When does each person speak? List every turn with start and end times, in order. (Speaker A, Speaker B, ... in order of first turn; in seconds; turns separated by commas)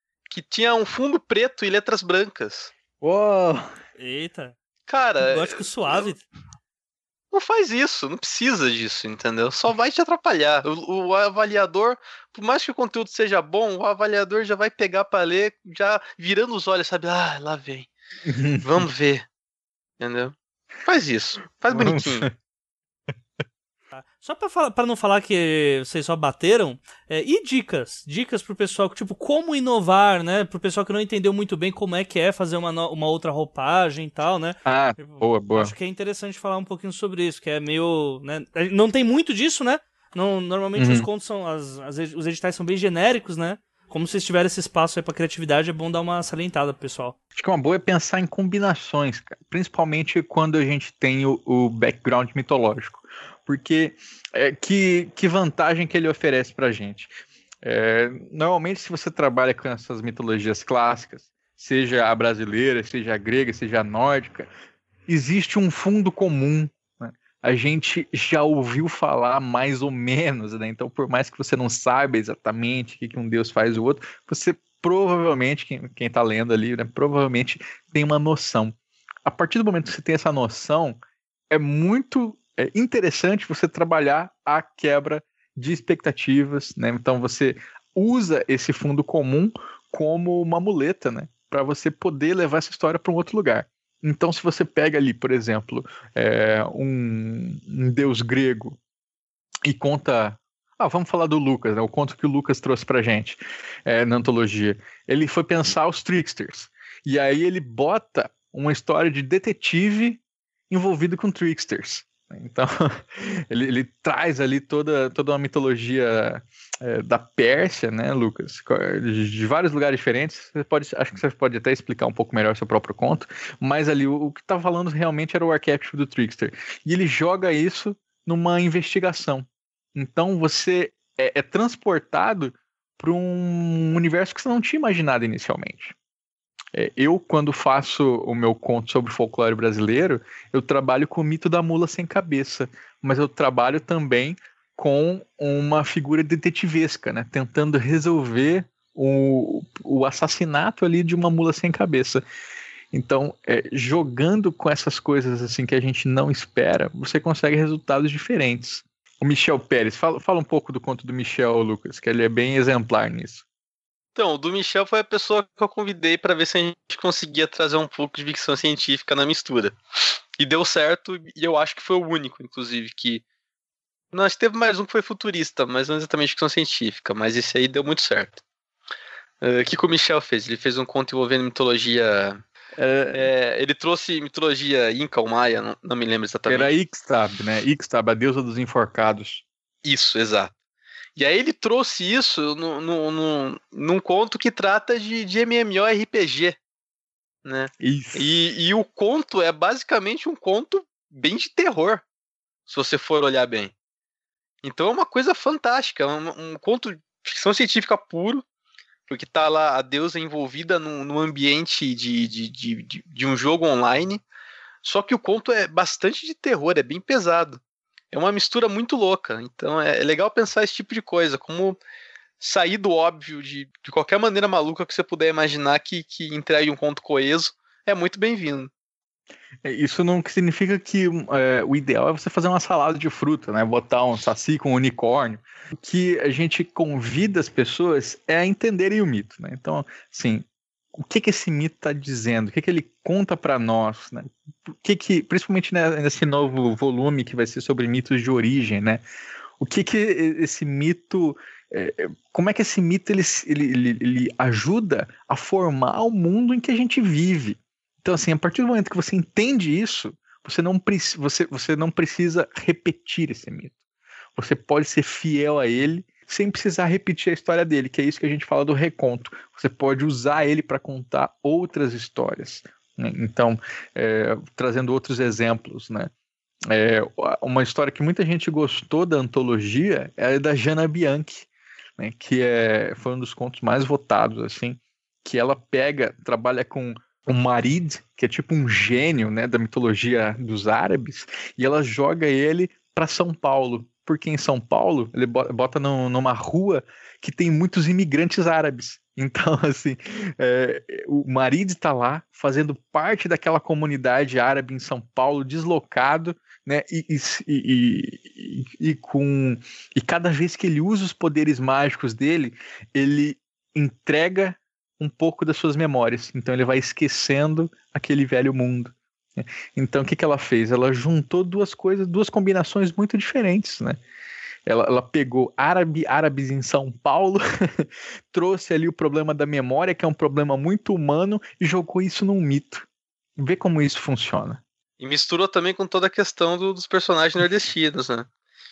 Speaker A: 0.3-2.7, Speaker B: 3.0-3.7, Speaker C: 4.0-4.5, Speaker A: 4.9-6.1, Speaker C: 5.2-6.2, Speaker A: 7.3-17.9, Speaker B: 18.2-18.8, Speaker A: 18.6-19.2, Speaker A: 20.0-20.3, Speaker A: 20.9-22.2, Speaker B: 21.7-22.3, Speaker C: 23.9-47.1, Speaker B: 34.6-35.7, Speaker B: 40.8-41.1, Speaker B: 47.3-57.1, Speaker B: 57.6-64.5, Speaker B: 65.1-81.0, Speaker B: 81.5-98.8, Speaker B: 99.7-135.9, Speaker B: 136.7-152.2, Speaker B: 152.9-163.4, Speaker A: 164.1-169.7, Speaker A: 170.4-173.2, Speaker A: 174.1-178.4, Speaker A: 179.4-182.4, Speaker B: 182.8-183.3, Speaker A: 183.1-186.7, Speaker B: 186.5-189.4, Speaker A: 189.8-190.5, Speaker A: 191.2-196.6, Speaker A: 197.4-202.0, Speaker B: 197.8-198.3, Speaker A: 202.7-203.7, Speaker A: 204.6-208.4, Speaker A: 209.1-214.2, Speaker A: 214.8-217.6, Speaker A: 218.1-221.8, Speaker A: 222.4-228.7, Speaker B: 229.6-240.4, Speaker B: 241.0-249.0, Speaker B: 249.6-263.7, Speaker B: 264.4-276.1, Speaker B: 276.7-324.0, Speaker B: 324.6-332.9, Speaker B: 333.4-334.6, Speaker A: 335.0-338.3